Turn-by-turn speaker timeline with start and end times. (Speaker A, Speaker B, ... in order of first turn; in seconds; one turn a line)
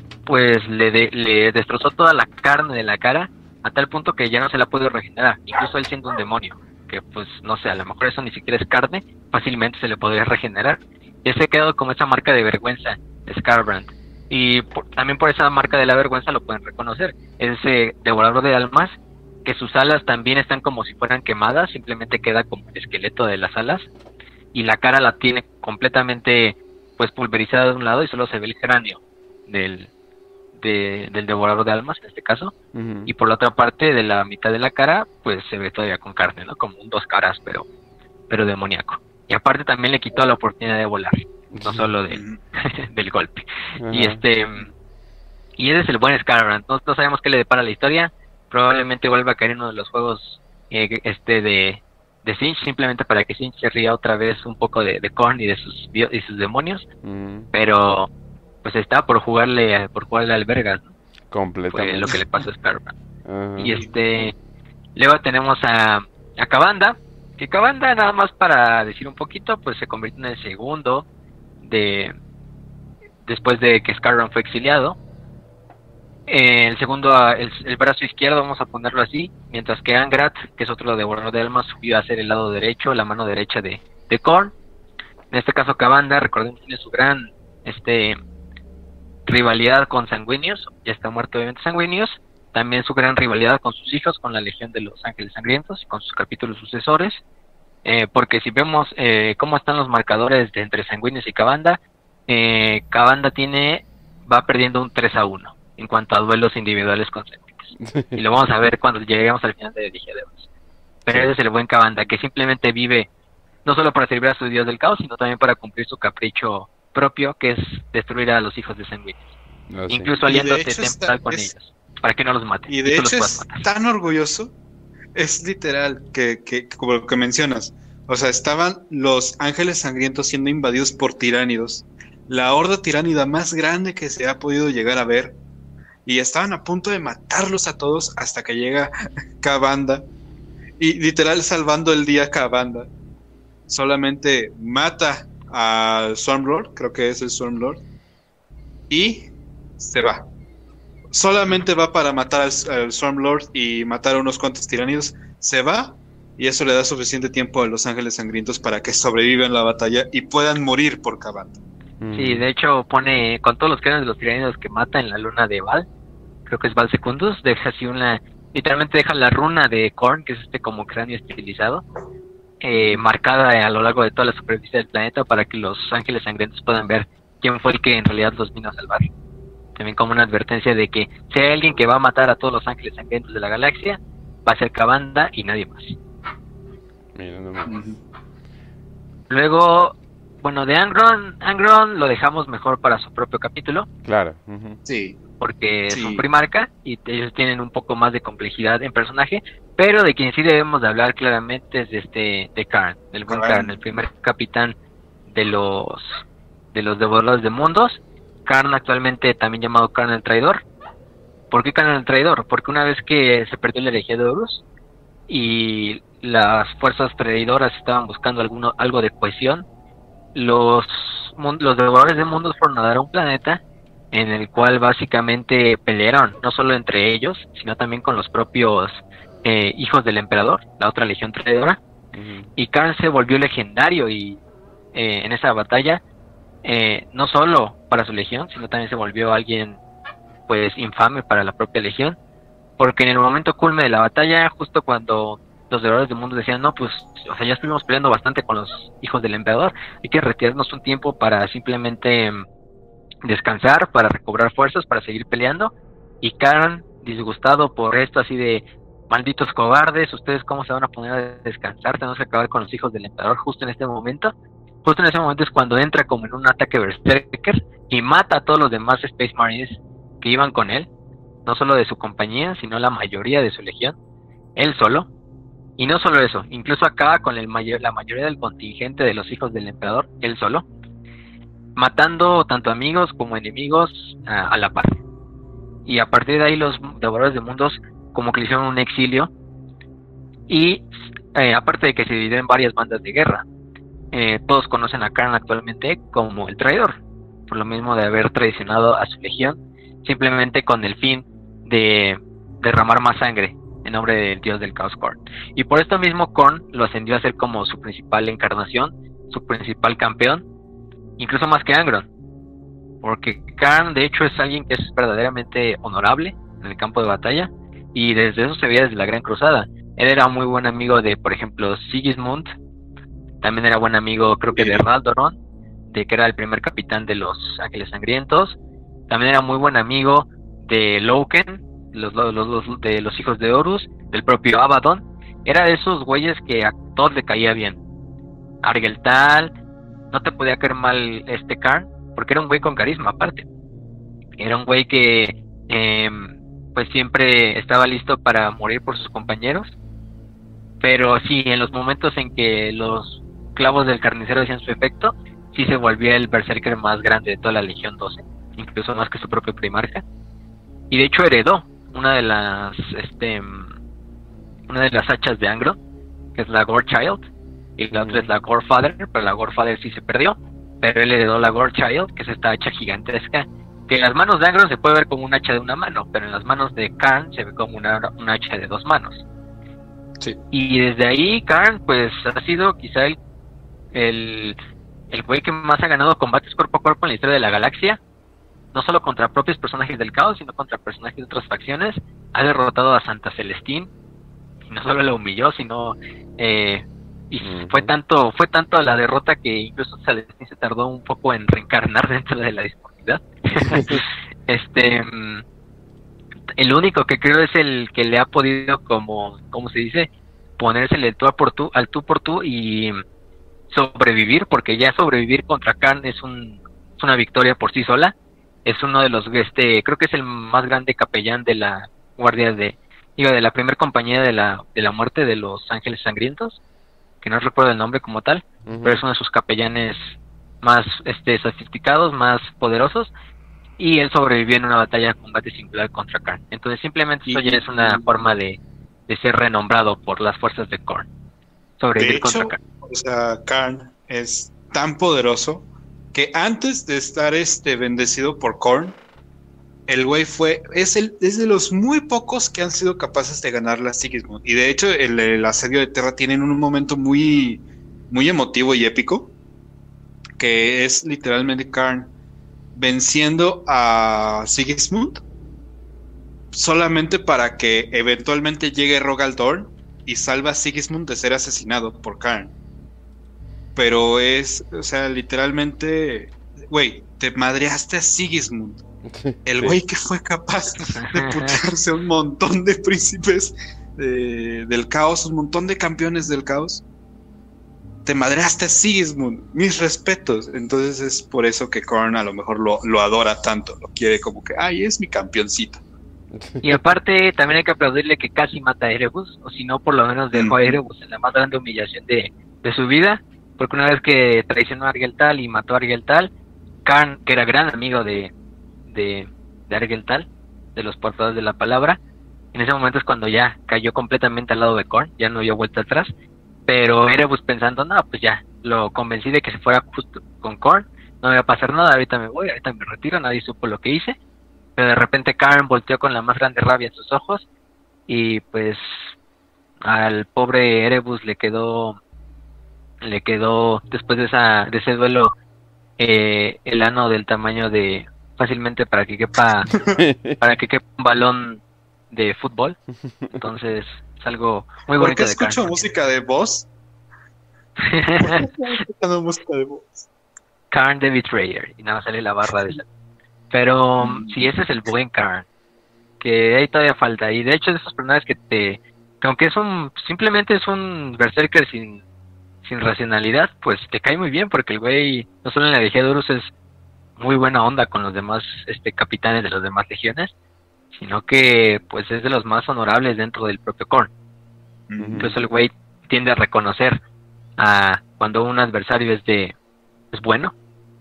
Speaker A: 0.3-23.9
Speaker A: 24.5-29.9
Speaker A: 30.6-32.5
Speaker B: 32.7-33.1
Speaker A: 33.1-37.7
Speaker A: 38.3-44.7
Speaker B: 41.5-41.9
Speaker C: 42.1-42.4
Speaker B: 43.8-44.2
Speaker A: 45.6-56.9
Speaker B: 57.0-57.5
Speaker A: 57.5-58.1
Speaker A: 58.6-60.9
Speaker B: 61.3-62.2
Speaker A: 61.7-63.0
Speaker B: 63.2-63.8
Speaker A: 63.6-64.3
Speaker A: 65.0-71.1
Speaker A: 71.6-72.2
Speaker A: 73.2-75.0
Speaker A: 76.3-84.5
Speaker A: 85.3-88.2
Speaker A: 89.3-97.2
Speaker A: 97.8-110.5
Speaker B: 107.8-108.2
Speaker A: 111.1-113.1
Speaker A: 113.7-119.2
Speaker B: 119.7-120.1
Speaker A: 119.9-123.7
Speaker C: 120.2-121.5
Speaker C: 122.7-124.5
Speaker C: 125.2-135.4
Speaker C: 136.1-140.1
Speaker C: 140.8-142.9
Speaker C: 143.7-147.8
Speaker C: 148.9-150.3
Speaker C: 151.1-161.6
Speaker B: 162.0-162.4
Speaker A: 162.1-165.9
Speaker A: 166.5-171.8
Speaker A: 172.6-179.1
Speaker A: 179.8-186.0
Speaker B: 187.2-187.8
Speaker C: 187.7-188.0
Speaker A: 189.3-193.9
Speaker B: 194.1-194.8
Speaker C: 194.9-195.2
Speaker A: 195.4-204.8
Speaker C: 195.9-196.2
Speaker C: 203.3-203.8
Speaker A: 205.3-206.2
Speaker A: 206.7-210.6
Speaker A: 211.5-214.6
Speaker A: 215.3-219.7
Speaker A: 220.3-223.6
Speaker A: 224.1-231.8
Speaker B: 232.1-232.5
Speaker A: 232.6-234.4
Speaker A: 234.9-236.0
Speaker A: 236.6-239.8
Speaker A: 240.5-242.2
Speaker A: 242.8-252.4
Speaker A: 253.2-264.3
Speaker A: 264.8-270.9
Speaker A: 271.5-274.0
Speaker A: 274.6-275.1
Speaker A: 275.8-280.6
Speaker A: 281.8-285.0
Speaker A: 285.9-289.3
Speaker A: 290.5-293.4
Speaker A: 294.1-310.4
Speaker A: 311.2-312.1
Speaker A: 313.0-322.5
Speaker A: 323.4-325.4
Speaker C: 324.5-324.9
Speaker A: 325.9-328.6
Speaker A: 329.1-337.8
Speaker A: 338.6-339.5
Speaker A: 340.1-343.5
Speaker A: 344.4-349.7
Speaker A: 350.8-360.0
Speaker A: 360.9-363.7
Speaker A: 364.7-365.8
Speaker A: 366.4-367.2
Speaker A: 367.8-379.2
Speaker B: 368.0-368.3
Speaker A: 380.5-383.2
Speaker A: 383.9-384.6
Speaker A: 385.1-388.0
Speaker A: 388.7-393.9
Speaker A: 394.7-405.4
Speaker B: 397.4-397.9
Speaker B: 403.6-404.0
Speaker A: 406.6-413.0
Speaker A: 413.7-418.1
Speaker A: 418.6-426.6
Speaker A: 427.2-430.1
Speaker B: 428.7-429.0
Speaker A: 430.6-433.1
Speaker A: 433.8-441.1
Speaker C: 437.3-438.1
Speaker A: 441.8-442.6
Speaker C: 442.0-449.0
Speaker C: 449.9-459.3
Speaker C: 460.4-462.1
Speaker C: 462.8-465.2
Speaker C: 466.5-472.5
Speaker C: 473.8-478.8
Speaker B: 479.1-479.8
Speaker C: 479.4-486.8
Speaker A: 480.9-481.6
Speaker C: 488.1-495.8
Speaker B: 496.3-496.8
Speaker A: 496.6-506.3
Speaker C: 500.3-500.8
Speaker A: 506.9-508.3
Speaker A: 508.9-512.0
Speaker A: 512.5-516.1
Speaker A: 516.7-524.2
Speaker A: 524.8-527.5
Speaker A: 528.1-529.0
Speaker A: 529.8-532.0
Speaker A: 533.0-535.3
Speaker A: 536.0-539.8
Speaker C: 539.7-540.0
Speaker B: 540.0-540.4
Speaker A: 540.4-542.8
Speaker A: 543.3-545.8
Speaker C: 544.9-546.7
Speaker A: 547.8-548.5
Speaker C: 548.2-550.1
Speaker A: 550.7-552.9
Speaker A: 553.5-555.5
Speaker C: 554.0-554.5
Speaker A: 556.2-562.0
Speaker A: 562.6-566.5
Speaker A: 567.2-570.3
Speaker A: 570.9-574.1
Speaker C: 574.9-575.4
Speaker B: 575.0-575.3
Speaker A: 575.2-577.0
Speaker A: 577.6-579.5
Speaker A: 580.1-580.5